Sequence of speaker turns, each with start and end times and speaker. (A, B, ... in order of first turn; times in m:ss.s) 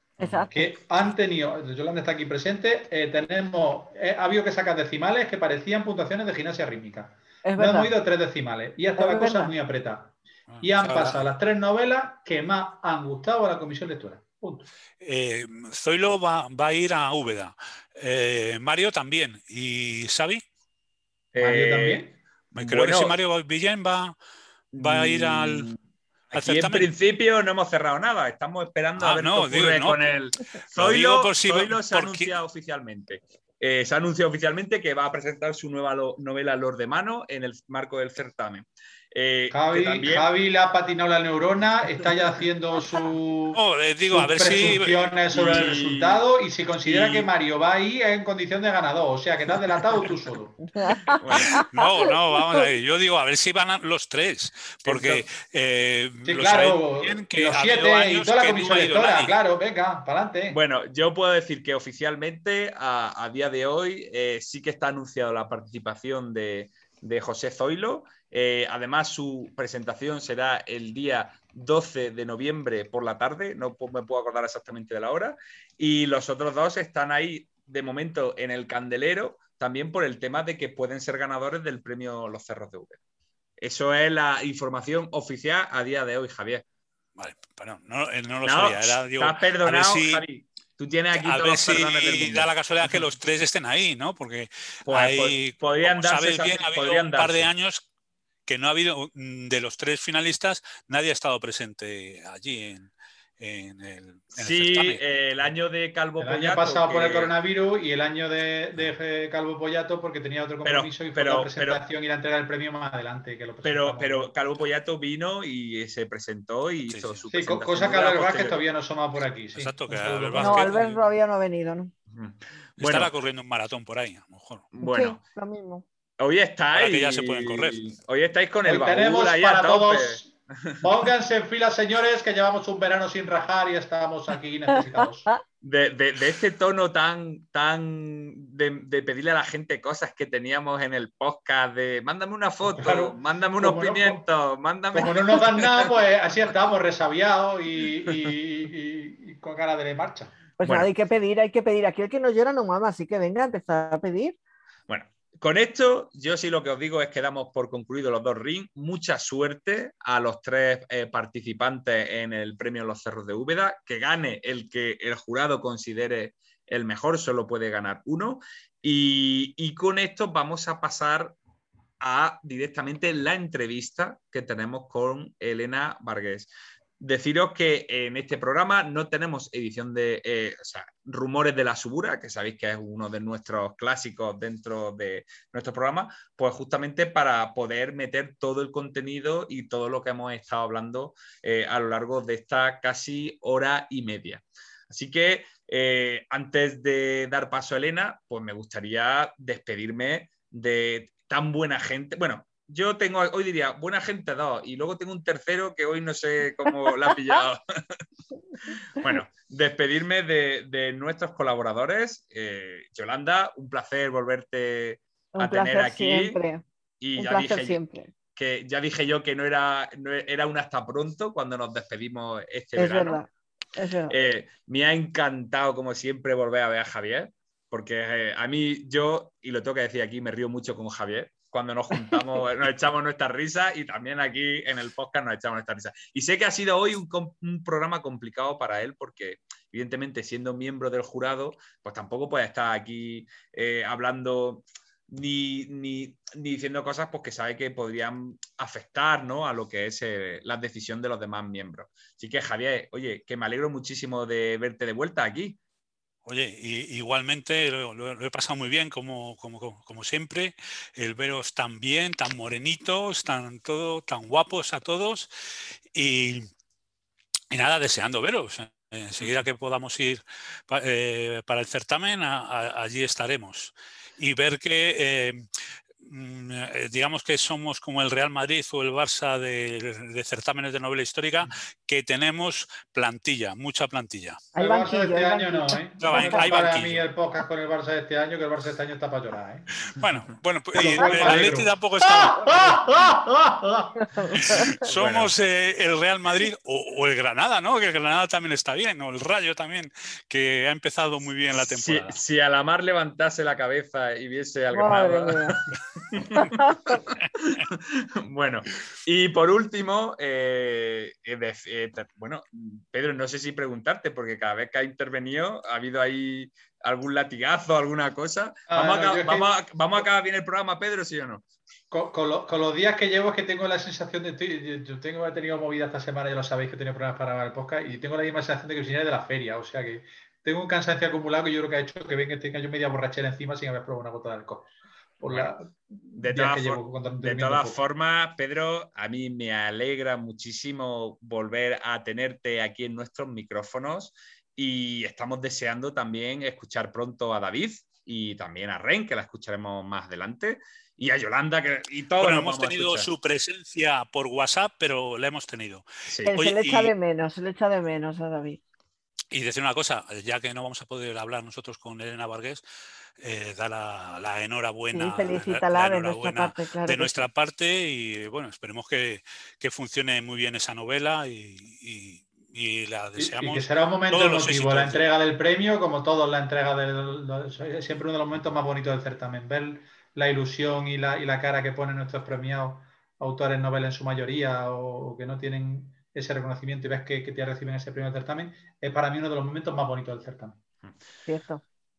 0:00.2-0:00.7 A
0:00.5-0:14.7 B
0:07.4-0:07.9 A
0:09.0-0:09.5 A
0:10.5-0:11.3 C
0:15.0-0:20.4 C
0:21.3-0:23.2 D
0:21.4-0:22.2 B
0:22.5-0:24.1 C
0:24.7-0:25.8 D
0:24.8-0:25.7 C
0:26.3-0:40.3 D
0:26.3-0:26.9 C
0:29.0-0:30.1 C
0:30.7-0:32.3 C
0:39.5-0:50.6 B
0:43.5-0:45.1 C
0:45.3-0:46.2 D
0:46.8-0:47.3 D
0:50.7-0:51.8 A
0:51.2-0:51.6 D
0:51.4-0:59.4 C
0:54.8-0:55.2 D
0:56.2-1:00.6 B
1:00.5-1:23.0 D
1:23.6-1:26.6 D
1:27.2-1:30.2 C
1:28.4-1:33.1 D
1:31.2-1:37.9 C
1:34.8-1:37.5 D
1:38.5-1:45.0 C
1:44.3-1:47.3 D
1:46.2-1:54.3 B
1:50.6-1:51.8 D
1:53.6-1:58.6 D
1:56.9-1:57.2 C
1:57.3-2:00.8 B
1:59.5-2:01.0 C
2:00.4-2:01.9 A
2:02.1-2:03.1 D
2:02.8-2:04.7 C
2:04.7-2:05.2 D
2:04.8-2:05.8 A
2:06.2-2:10.8 D
2:06.7-2:07.9 C
2:08.6-2:15.4 B
2:15.6-2:25.9 D
2:22.6-2:24.2 B
2:24.9-2:30.4 B
2:30.6-2:34.4 A
2:30.6-2:30.9 D
2:34.9-2:51.4 D
2:52.0-3:28.0 D
3:29.0-3:36.4 D
3:35.3-3:36.6 A
3:37.0-3:37.8 D
3:37.2-3:38.1 A
3:38.3-3:43.2 D
3:42.8-3:44.1 A
3:44.1-4:15.6 D
4:16.2-4:25.3 C
4:25.9-4:26.5 C
4:27.5-4:35.4 C
4:36.0-4:44.5 C
4:44.5-4:49.7 B
4:44.6-4:46.6 A
4:46.0-4:47.1 C
4:49.9-4:52.8 C
4:50.8-4:54.1 B
4:50.8-4:51.6 A
4:54.0-4:54.6 A
4:54.4-5:02.2 C
4:54.9-4:55.3 D
5:01.6-5:05.6 D
5:04.7-5:05.6 A
5:06.1-5:21.4 D
5:06.3-5:07.0 A
5:18.7-5:19.5 B
5:21.9-5:37.8 B
5:35.3-5:35.5 D
5:36.2-5:53.1 D
5:52.2-5:56.9 C
5:56.1-5:56.3 D
5:56.2-5:58.6 A
5:59.3-6:02.6 C
6:03.2-6:15.0 C
6:04.9-6:07.2 A
6:13.2-6:30.6 B
6:31.3-6:31.6 A